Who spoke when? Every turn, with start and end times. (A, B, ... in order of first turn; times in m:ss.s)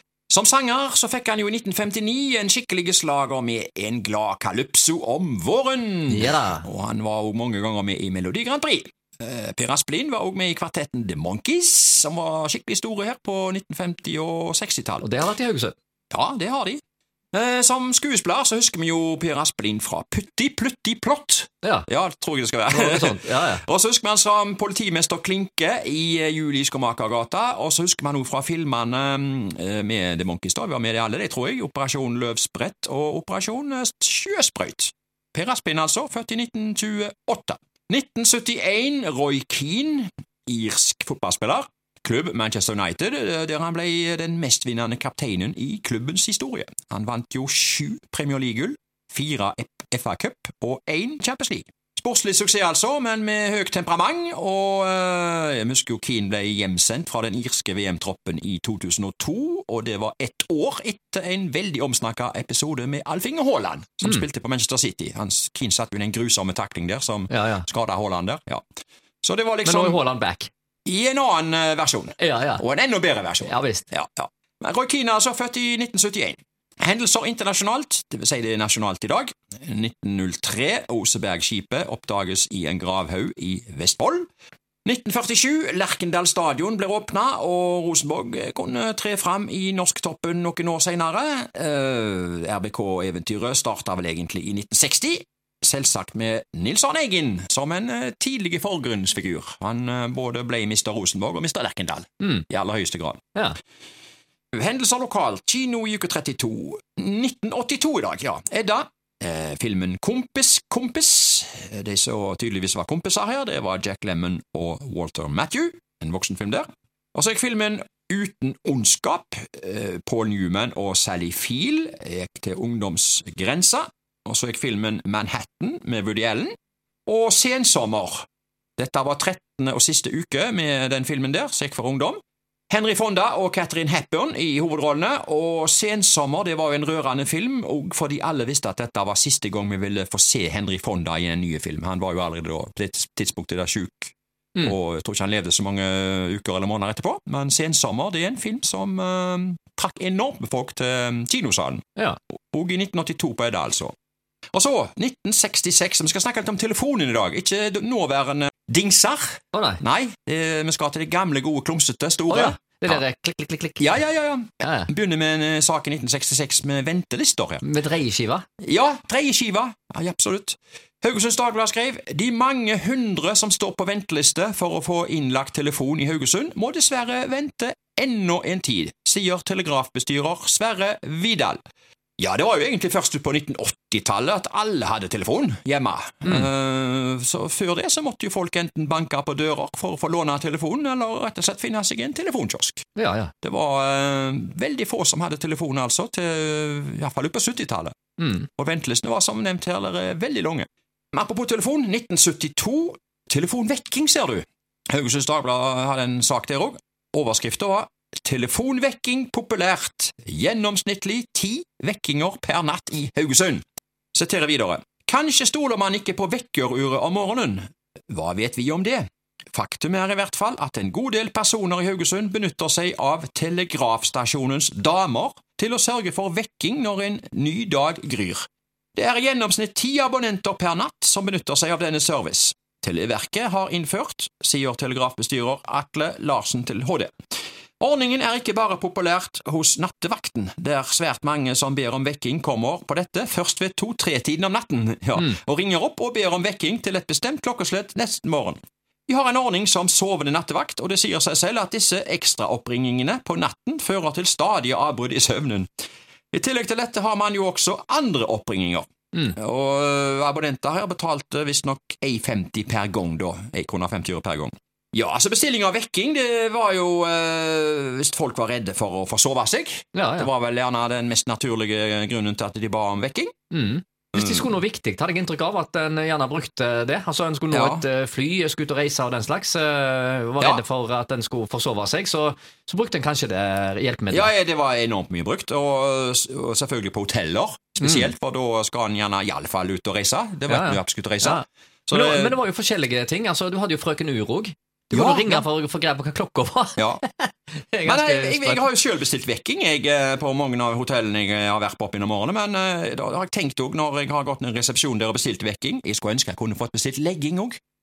0:00.3-0:15.1 A
0:06.1-0:06.6 B
0:15.0-0:15.8 B
0:16.1-0:16.8 A
0:17.3-1:08.6 A
0:21.6-0:21.9 B
0:22.7-0:23.6 B
1:07.3-1:07.7 B
1:09.2-1:10.0 A
1:09.6-1:10.5 B
1:10.9-1:24.3 A
1:12.2-1:12.6 B
1:13.4-1:13.9 B
1:24.8-1:43.3 A
1:44.5-2:06.6 A
2:07.1-2:08.3 A
2:08.8-2:31.9 A
2:32.5-2:33.9 A
2:34.5-2:43.0 A
2:39.5-2:39.8 B
2:42.3-2:44.0 B
2:43.8-2:47.6 A
2:44.6-2:44.9 B
2:47.6-2:48.4 B
2:48.6-3:01.6 A
3:02.2-3:12.9 A
3:13.0-3:13.3 B
3:13.4-3:18.0 A
3:18.2-3:18.4 B
3:18.5-3:57.1 A
3:57.8-4:15.7 A
4:16.3-4:33.3 A
4:29.9-4:30.3 B
4:33.5-4:44.3 B
4:34.1-4:34.5 A
4:37.5-4:37.8 A
4:44.1-4:52.4 A
4:47.8-4:48.1 B
4:50.5-4:58.7 B
4:54.9-4:55.4 A
4:56.8-4:57.0 A
4:57.8-5:07.6 A